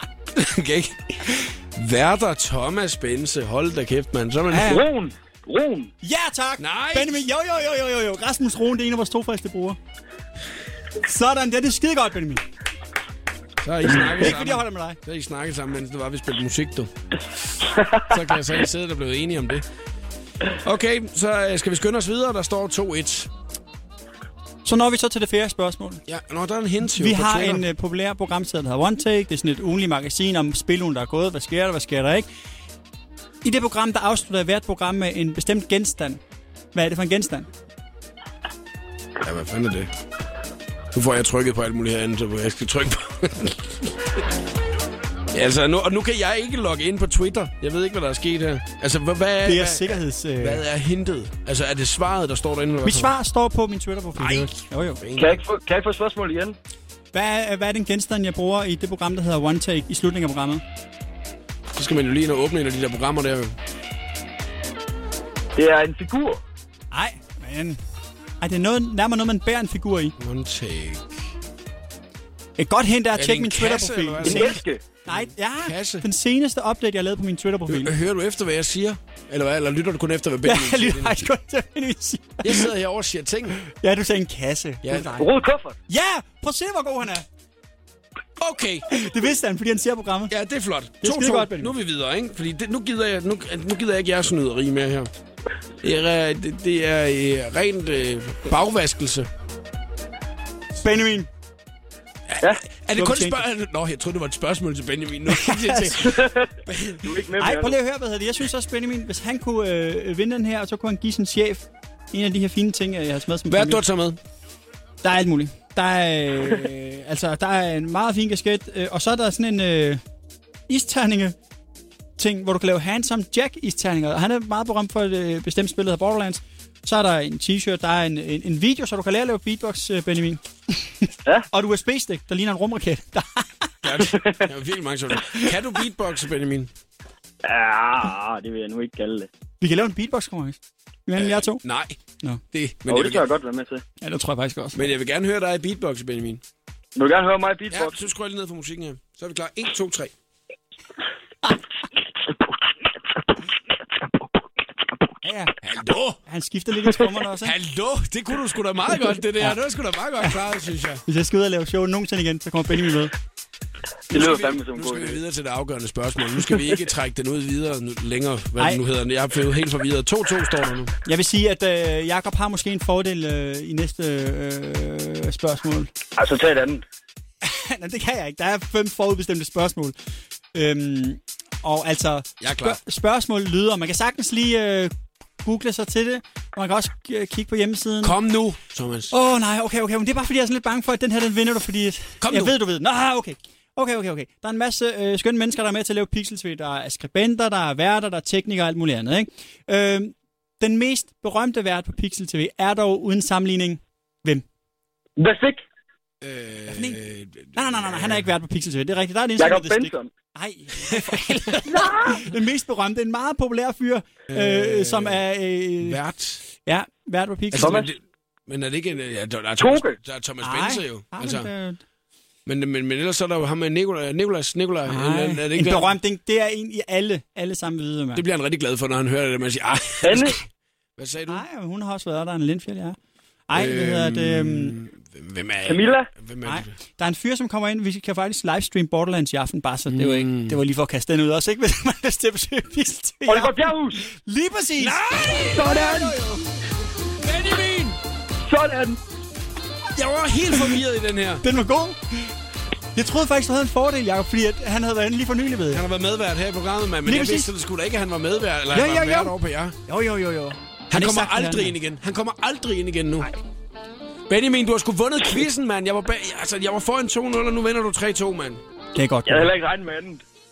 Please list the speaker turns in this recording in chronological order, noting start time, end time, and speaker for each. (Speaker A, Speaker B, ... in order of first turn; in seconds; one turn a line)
Speaker A: 0.3-4.8
Speaker B: 4.5-4.8
Speaker C: 4.6-5.9
Speaker B: 6.0-9.8
Speaker A: 6.6-7.2
Speaker B: 11.0-12.4
Speaker A: 13.6-16.9
Speaker B: 14.2-15.0
Speaker A: 18.0-19.6
Speaker A: 20.6-23.3
Speaker B: 24.6-26.0
Speaker A: 26.1-27.6
Speaker B: 26.9-32.3
Speaker B: 33.4-36.2
Speaker B: 36.7-37.5
Speaker A: 39.2-39.9
Speaker A: 40.9-43.9
Speaker A: 45.3-53.1
Speaker B: 49.4-50.6
Speaker B: 52.8-55.0
Speaker A: 54.2-55.4
Speaker C: 55.1-56.5
Speaker B: 57.1-60.6
Speaker A: 61.8-63.5
Speaker C: 65.5-66.4
Speaker B: 66.9-67.8
Speaker B: 68.4-70.1
Speaker A: 70.2-71.3
Speaker B: 72.6-77.9
Speaker A: 73.2-76.0
Speaker C: 74.2-74.8
Speaker A: 77.7-81.2
Speaker B: 80.4-82.7
Speaker A: 82.4-83.6
Speaker B: 83.7-85.3
Speaker A: 84.8-85.1
Speaker C: 85.2-85.8
Speaker B: 85.9-87.2
Speaker A: 88.4-88.9
Speaker B: 88.9-90.3
Speaker A: 90.3-95.1
Speaker B: 91.0-91.7
Speaker A: 95.8-99.3
Speaker B: 100.8-101.3
Speaker A: 102.3-107.1
Speaker B: 103.0-103.4
Speaker B: 105.3-106.1
Speaker C: 106.0-107.8
Speaker B: 107.4-113.8
Speaker A: 113.5-114.2
Speaker B: 115.0-120.0
Speaker B: 120.7-121.3
Speaker B: 122.2-133.7
Speaker A: 133.8-136.7
Speaker C: 134.2-134.4
Speaker C: 137.4-139.3
Speaker B: 139.6-141.6
Speaker A: 141.2-142.0
Speaker A: 142.5-143.3
Speaker C: 142.9-143.8
Speaker B: 144.0-144.8
Speaker A: 144.7-146.4
Speaker C: 146.9-148.1
Speaker A: 147.7-150.1
Speaker B: 155.2-155.5
Speaker A: 155.6-156.2
Speaker B: 156.3-157.5
Speaker A: 157.4-161.0
Speaker B: 161.1-163.1
Speaker C: 164.1-165.2
Speaker A: 164.1-170.9
Speaker C: 166.3-166.8
Speaker B: 171.1-175.9
Speaker C: 176.2-176.8
Speaker B: 177.4-179.9
Speaker B: 180.5-184.9
Speaker A: 182.4-182.8
Speaker B: 185.4-188.2
Speaker A: 188.0-189.1
Speaker B: 189.1-204.4
Speaker A: 192.2-192.5
Speaker C: 205.2-205.6
Speaker A: 206.2-208.2
Speaker B: 206.7-207.0
Speaker B: 207.5-216.0
Speaker C: 209.4-210.1
Speaker C: 211.7-212.2
Speaker A: 214.3-215.2
Speaker A: 215.8-216.4
Speaker B: 216.7-217.9
Speaker C: 217.5-217.9
Speaker A: 217.5-221.5
Speaker C: 219.6-220.0
Speaker B: 220.4-221.8
Speaker A: 222.4-225.9
Speaker B: 224.9-228.2
Speaker A: 228.1-230.4
Speaker C: 230.0-230.4
Speaker A: 231.0-231.4
Speaker B: 231.3-232.9
Speaker B: 233.5-234.8
Speaker A: 233.5-236.7
Speaker C: 235.6-236.1
Speaker B: 236.4-246.4
Speaker A: 239.9-240.6
Speaker C: 243.3-244.0
Speaker A: 244.8-245.8
Speaker C: 245.3-246.2
Speaker A: 247.2-248.0
Speaker C: 248.4-249.0
Speaker A: 249.9-251.4
Speaker B: 251.4-252.3
Speaker B: 252.9-255.8
Speaker A: 255.7-259.8
Speaker B: 257.1-257.5
Speaker B: 258.7-259.3
Speaker B: 259.9-261.7
Speaker A: 260.9-263.4
Speaker A: 264.3-268.6
Speaker B: 268.9-269.5
Speaker C: 269.2-270.2